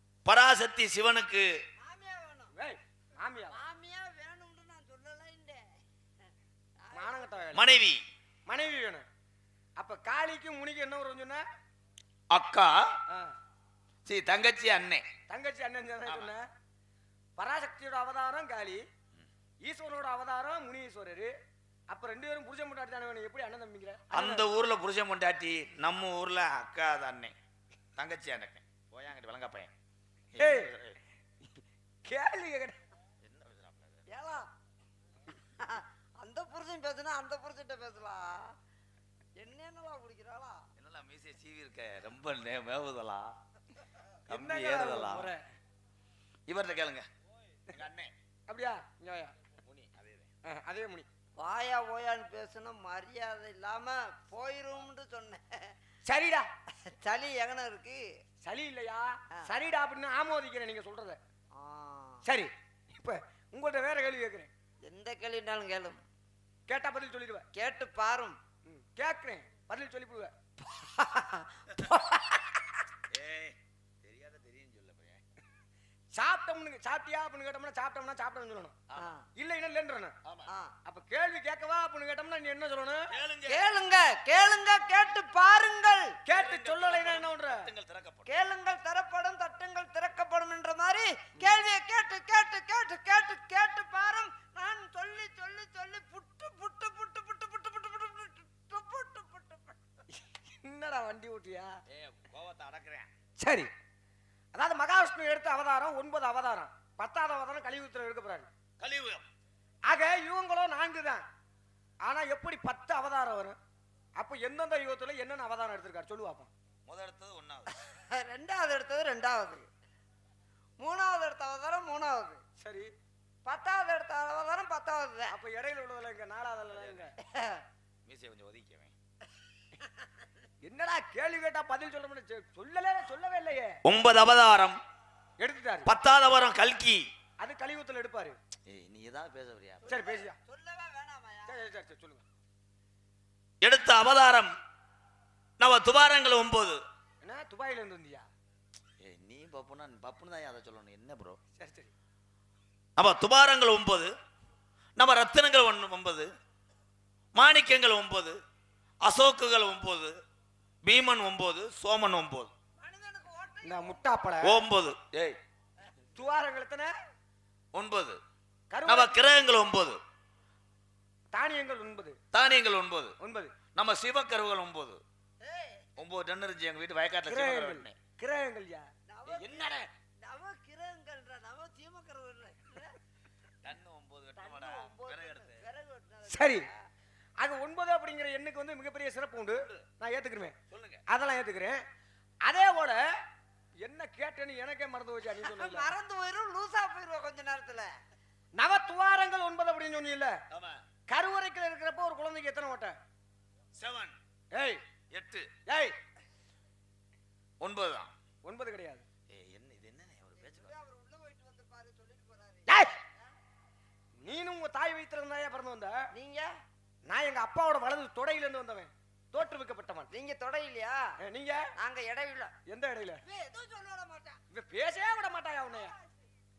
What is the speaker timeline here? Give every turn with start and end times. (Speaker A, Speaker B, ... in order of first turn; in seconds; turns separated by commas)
Speaker A: 0.2-1.6, Speaker B: 1.8-2.5, Speaker C: 2.5-3.6, Speaker B: 3.5-5.7, Speaker B: 6.8-7.3, Speaker C: 6.9-7.7, Speaker A: 7.5-8.0, Speaker C: 8.5-9.1, Speaker C: 9.8-11.4, Speaker A: 12.3-12.9, Speaker A: 14.1-15.0, Speaker C: 15.3-16.4, Speaker C: 17.4-18.8, Speaker C: 19.6-21.3, Speaker C: 21.9-24.5, Speaker A: 24.1-27.3, Speaker A: 28.0-29.7, Speaker A: 30.3-31.0, Speaker C: 30.4-30.7, Speaker C: 32.0-32.8, Speaker A: 33.2-34.1, Speaker B: 34.1-34.5, Speaker B: 35.6-38.6, Speaker B: 39.4-40.7, Speaker A: 40.8-43.4, Speaker A: 44.3-45.3, Speaker C: 44.3-45.4, Speaker A: 46.5-47.1, Speaker A: 47.7-48.1, Speaker C: 48.5-49.3, Speaker A: 49.6-50.3, Speaker C: 50.5-51.1, Speaker B: 51.4-55.7, Speaker C: 56.1-56.5, Speaker B: 56.8-58.1, Speaker C: 58.4-61.2, Speaker B: 61.5-62.2, Speaker C: 62.2-64.5, Speaker B: 64.8-66.0, Speaker C: 66.7-67.5, Speaker B: 67.5-68.4, Speaker C: 68.7-70.3, Speaker B: 70.7-72.5, Speaker A: 73.1-75.2, Speaker C: 76.1-78.8, Speaker B: 79.0-79.3, Speaker C: 79.4-80.2, Speaker A: 80.2-80.5, Speaker B: 80.5-80.7, Speaker C: 80.9-83.1, Speaker A: 83.1-83.7, Speaker B: 83.5-86.2, Speaker C: 86.3-87.7, Speaker A: 86.3-88.3, Speaker B: 88.3-99.8, Speaker C: 100.2-101.7, Speaker A: 101.9-103.1, Speaker C: 103.4-103.7, Speaker C: 104.5-108.5, Speaker A: 108.8-109.3, Speaker C: 109.9-111.2, Speaker C: 112.0-113.6, Speaker C: 114.2-116.5, Speaker A: 116.9-117.7, Speaker B: 117.8-119.7, Speaker B: 120.8-122.4, Speaker C: 122.6-122.9, Speaker B: 123.5-125.3, Speaker C: 125.3-127.1, Speaker A: 126.8-127.0, Speaker B: 127.2-127.6, Speaker A: 128.1-128.9, Speaker C: 130.6-133.8, Speaker A: 133.8-134.8, Speaker C: 135.4-135.9, Speaker A: 135.8-137.1, Speaker C: 137.4-138.4, Speaker A: 138.7-140.0, Speaker C: 139.9-140.4, Speaker B: 139.9-141.6, Speaker C: 141.5-142.2, Speaker A: 143.6-144.5, Speaker A: 145.6-146.8, Speaker C: 147.2-148.3, Speaker A: 149.0-151.4, Speaker C: 151.6-151.9, Speaker A: 153.0-154.1, Speaker A: 155.0-156.3, Speaker A: 157.3-158.4, Speaker A: 159.0-160.2, Speaker A: 160.8-162.5, Speaker B: 162.8-164.1, Speaker C: 163.6-164.6, Speaker A: 164.4-165.4, Speaker C: 166.2-166.9, Speaker A: 167.7-168.2, Speaker C: 168.7-169.2, Speaker A: 168.9-170.0, Speaker C: 171.3-172.2, Speaker A: 172.3-173.1, Speaker C: 173.2-173.6, Speaker A: 173.8-175.0, Speaker B: 175.4-175.9, Speaker A: 176.0-177.9, Speaker C: 177.3-178.9, Speaker B: 179.1-183.0, Speaker A: 179.3-179.9, Speaker A: 183.6-185.6, Speaker B: 184.4-186.7, Speaker C: 186.3-186.7, Speaker C: 187.4-190.6, Speaker A: 189.5-189.9, Speaker A: 190.7-191.0, Speaker C: 191.1-191.8, Speaker C: 192.4-193.0, Speaker C: 193.8-195.9, Speaker B: 195.4-197.9, Speaker C: 198.6-200.4, Speaker A: 200.5-200.8, Speaker C: 201.1-203.0, Speaker A: 203.8-204.2, Speaker C: 204.5-204.8, Speaker A: 205.1-205.5, Speaker C: 205.7-205.9, Speaker A: 207.6-208.1, Speaker C: 208.4-209.1, Speaker A: 209.3-210.7, Speaker B: 210.4-212.9, Speaker C: 212.7-212.9, Speaker C: 214.2-216.1, Speaker B: 216.1-216.5, Speaker C: 217.1-220.1, Speaker B: 220.1-221.1, Speaker C: 221.2-221.7, Speaker B: 221.8-222.5, Speaker C: 222.7-223.2, Speaker B: 223.2-224.4, Speaker C: 224.5-225.9